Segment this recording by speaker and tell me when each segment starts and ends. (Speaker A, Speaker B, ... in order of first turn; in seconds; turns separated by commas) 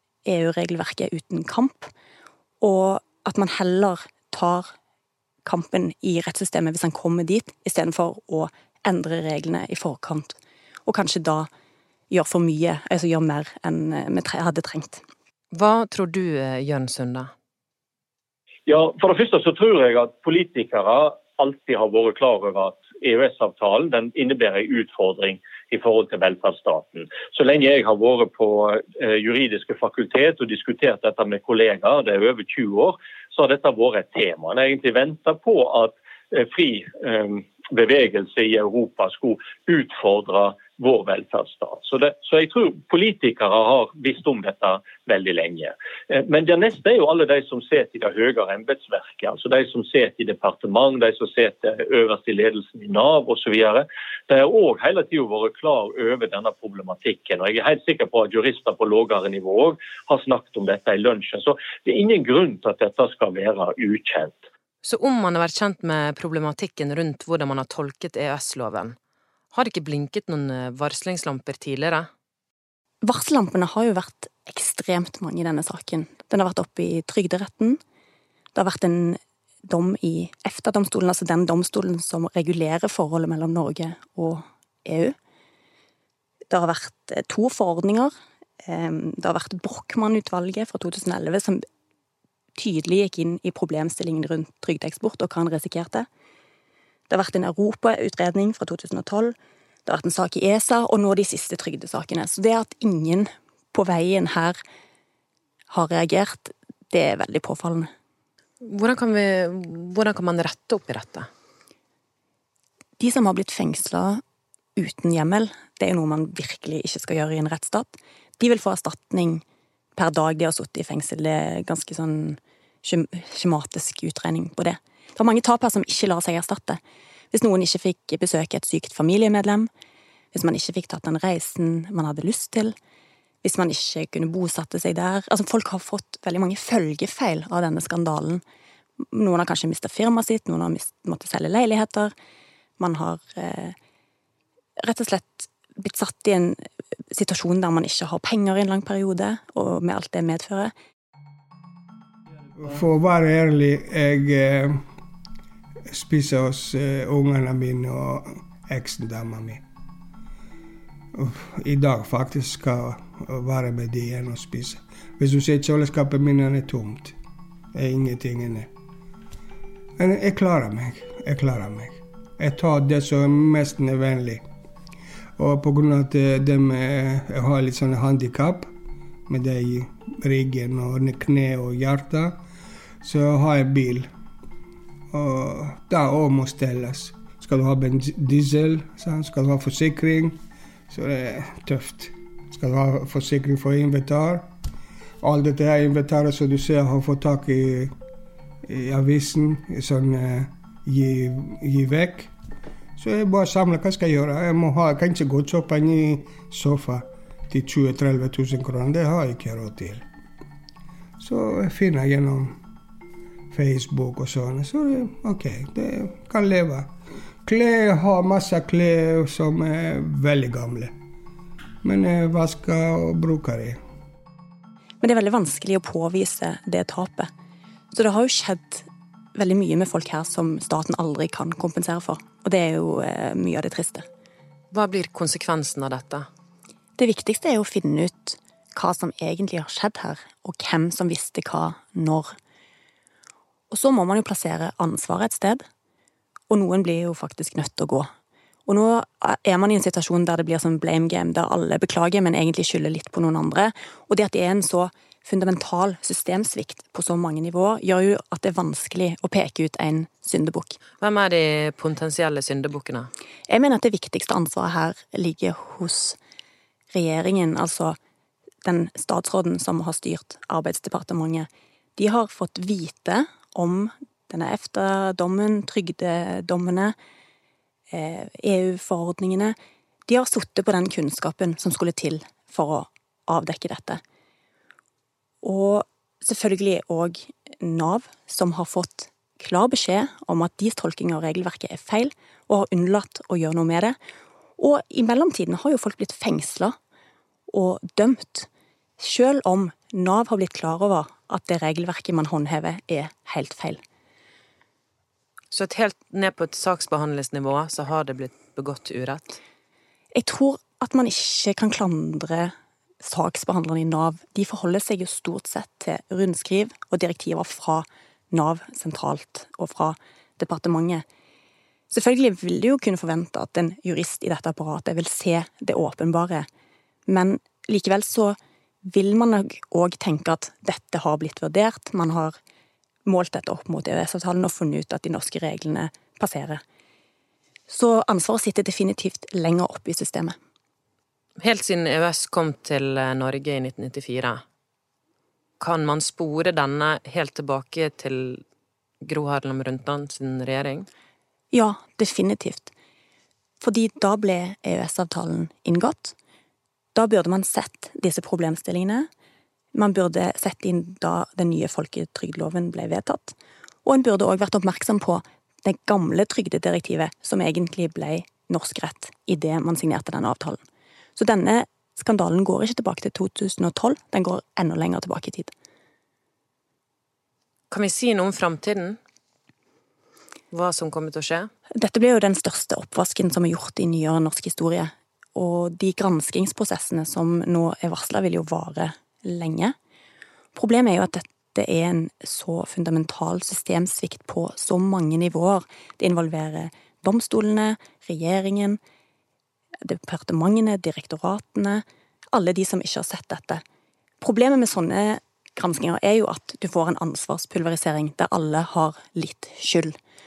Speaker A: 0.2-1.9, Speaker A: 2.6-4.7, Speaker A: 5.5-11.5, Speaker A: 12.1-15.0, Speaker B: 15.5-17.3, Speaker C: 18.7-64.4, Speaker B: 64.8-69.0, Speaker B: 69.5-72.1, Speaker A: 73.0-77.8, Speaker A: 78.5-85.2, Speaker A: 86.5-88.1, Speaker A: 88.7-91.6, Speaker A: 92.6-96.1, Speaker A: 97.1-99.3, Speaker A: 99.9-104.6, Speaker A: 105.7-107.9, Speaker B: 108.6-111.3, Speaker A: 113.0-114.2, Speaker A: 114.8-119.4, Speaker A: 120.0-126.8, Speaker A: 127.3-129.7, Speaker A: 130.3-132.8, Speaker A: 133.4-138.4, Speaker A: 139.1-142.1, Speaker A: 142.8-143.8, Speaker A: 144.8-146.6, Speaker A: 147.1-150.7, Speaker D: 152.6-154.8, Speaker D: 155.9-159.6, Speaker D: 161.1-167.2, Speaker D: 167.7-168.7, Speaker D: 170.0-174.4, Speaker D: 175.4-178.7, Speaker D: 179.3-182.4, Speaker D: 183.0-184.1, Speaker D: 185.1-190.4, Speaker D: 190.9-194.5, Speaker D: 195.2-197.9, Speaker D: 198.7-202.3, Speaker D: 203.0-210.1, Speaker D: 211.2-212.6, Speaker D: 213.5-216.9, Speaker D: 217.4-220.9, Speaker D: 221.8-223.8, Speaker A: 225.0-227.3, Speaker A: 227.9-234.1, Speaker B: 234.7-236.3, Speaker A: 237.0-242.3, Speaker A: 243.7-245.6, Speaker A: 246.5-248.1, Speaker A: 248.7-260.8, Speaker B: 261.0-263.1, Speaker A: 263.5-266.2, Speaker A: 266.9-268.0, Speaker A: 268.6-276.9, Speaker A: 277.9-279.6, Speaker A: 280.1-284.0, Speaker A: 285.4-294.0, Speaker A: 294.6-296.8, Speaker A: 297.5-298.5, Speaker A: 299.0-303.8, Speaker B: 305.5-309.4, Speaker A: 310.1-312.5, Speaker A: 313.0-321.0, Speaker A: 321.9-326.5, Speaker A: 327.1-332.4, Speaker A: 333.1-336.6, Speaker A: 337.7-340.4, Speaker B: 341.4-344.4, Speaker B: 345.6-348.4, Speaker B: 349.0-350.9, Speaker A: 351.5-352.7, Speaker A: 353.6-356.1, Speaker A: 356.9-359.1, Speaker A: 359.8-370.6, Speaker A: 371.2-375.5, Speaker B: 377.7-379.0, Speaker B: 380.5-381.5, Speaker A: 381.8-389.8, Speaker A: 390.6-398.8, Speaker A: 399.8-403.6, Speaker A: 404.2-409.9